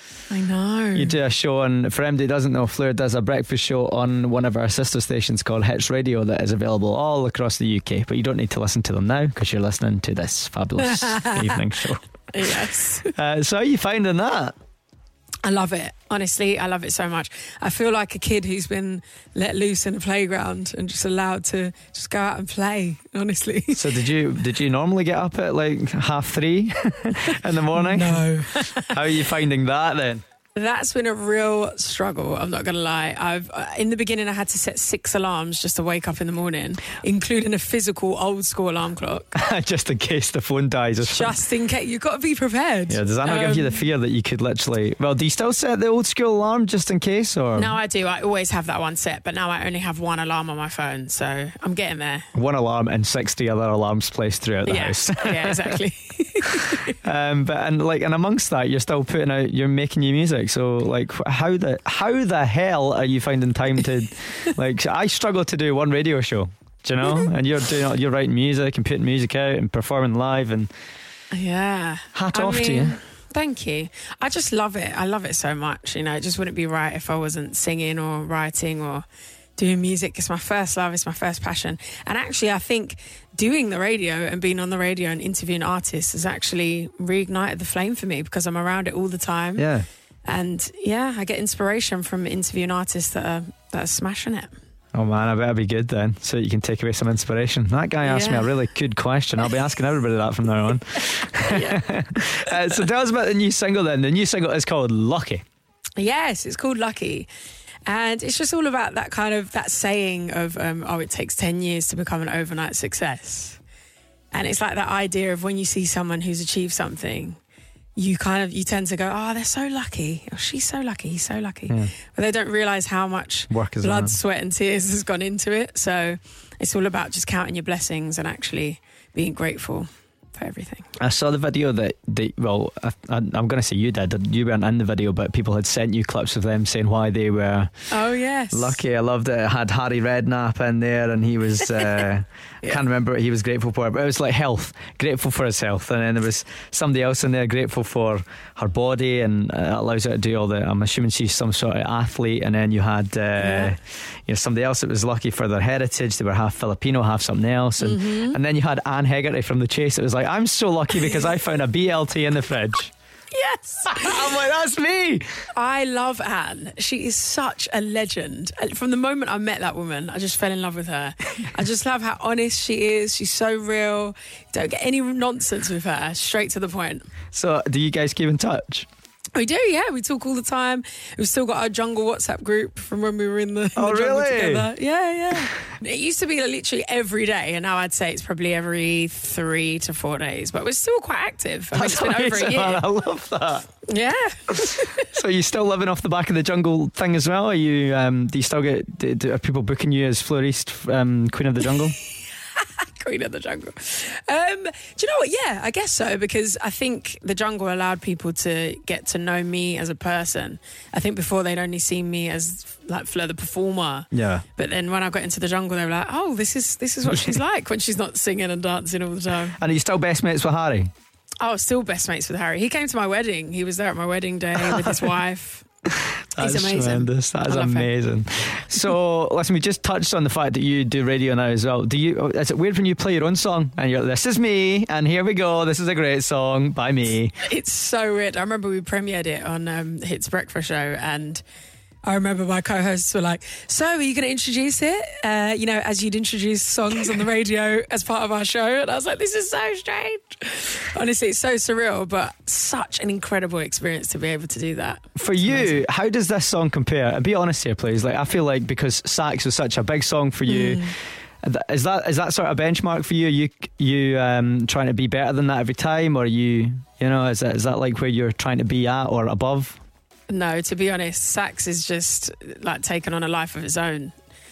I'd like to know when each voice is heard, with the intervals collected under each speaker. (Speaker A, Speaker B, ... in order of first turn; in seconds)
Speaker A: 0.3-1.2, 10.8-11.6, 12.3-13.1, 15.4-23.9, 27.7-29.0, 30.6-39.4, 41.0-43.9, 47.5-52.3, 54.6-56.9, 71.3-79.1, 79.6-89.7, 90.2-94.5, 98.0-98.5, 101.4-101.8, 106.0-107.3, 107.9-113.6, 114.3-117.4, 118.0-130.9, 137.9-138.8, 153.4-153.7, 157.8-158.4, 163.3-164.2, 165.5-177.1, 179.3-192.8, 193.9-195.1, 202.6-219.6, 221.4-225.7, 226.4-227.9, 237.4-241.4, 242.0-255.8, 260.5-260.9, 270.3-274.1
Speaker B: 0.9-12.1, 13.2-14.6, 23.7-28.3, 28.9-30.2, 39.4-41.4, 42.9-47.8, 52.3-55.8, 56.5-70.7, 72.2-73.0, 89.6-89.8, 94.9-105.4, 123.5-124.2, 131.0-137.9, 138.5-162.9, 163.9-165.3, 177.3-178.9, 183.8-184.7, 191.7-193.7, 194.6-202.0, 214.1-214.4, 217.1-217.4, 219.6-220.9, 224.6-225.1, 226.3-237.3, 255.2-260.9, 261.4-269.8